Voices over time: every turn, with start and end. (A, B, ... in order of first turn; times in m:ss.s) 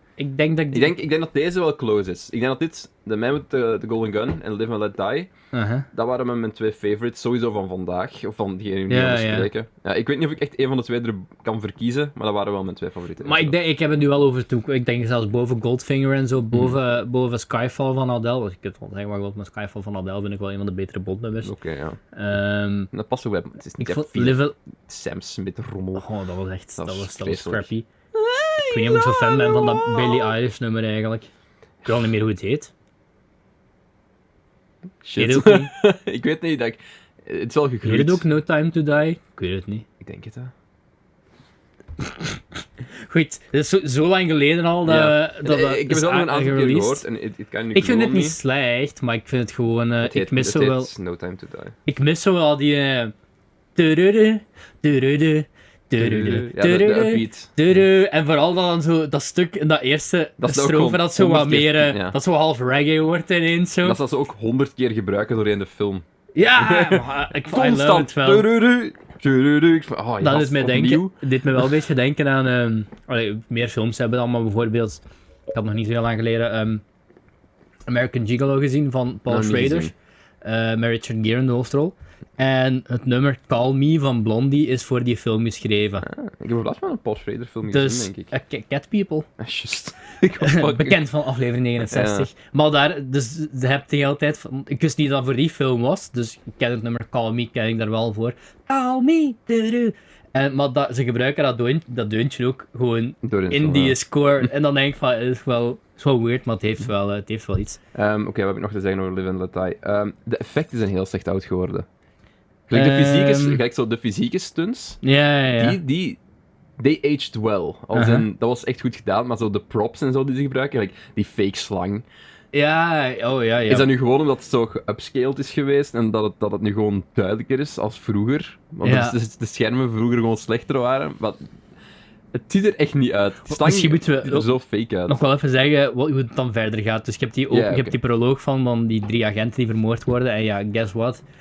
0:00.2-0:01.0 A
0:00.7-0:05.3 B
0:05.5-0:05.9 A
0:05.9-0:13.5 B
0:08.9-0:09.5 A
0:13.2-0:21.5 A
0:16.5-0:16.8 B
0:21.4-0:22.0 B
0:22.1-0:22.9 A
0:22.9-0:26.0 B
0:23.8-0:24.6 A
0:26.0-0:27.8 A
0:26.8-0:30.3 B
0:28.7-0:31.3 A
0:31.8-0:32.7 A
0:35.0-0:38.2 B
0:35.2-0:35.7 A
0:37.8-0:39.8 A
0:40.0-0:40.5 B
0:42.0-0:42.4 A
0:43.1-0:47.0 A
0:44.8-0:48.4 B
0:47.7-0:50.9 A
0:50.0-0:51.8 B
0:51.8-0:53.1 A
0:53.8-1:04.0 A
0:56.0-0:57.8 B
1:00.4-1:02.2 B
1:03.8-1:06.0 B
1:06.3-1:08.5 A
1:06.6-1:11.6 B
1:10.2-1:16.8 A
1:17.9-1:19.9 A
1:19.3-1:19.9 B
1:20.4-1:26.0 A
1:26.0-1:28.3 B
1:27.7-1:29.3 A
1:29.4-1:31.0 B
1:30.4-1:47.8 A
1:31.8-1:32.3 B
1:43.2-1:44.5 B
1:47.9-1:51.8 B
1:52.7-1:55.0 B
1:52.7-1:53.6 A
1:55.0-1:55.8 A
1:55.6-1:56.2 B
1:56.8-2:02.0 B
1:57.9-1:58.2 A
2:02.5-2:03.9 A
2:03.7-2:11.4 B
2:08.8-2:09.1 A
2:12.3-2:15.2 B
2:13.5-2:14.5 A
2:15.1-2:21.2 A
2:17.5-2:17.9 B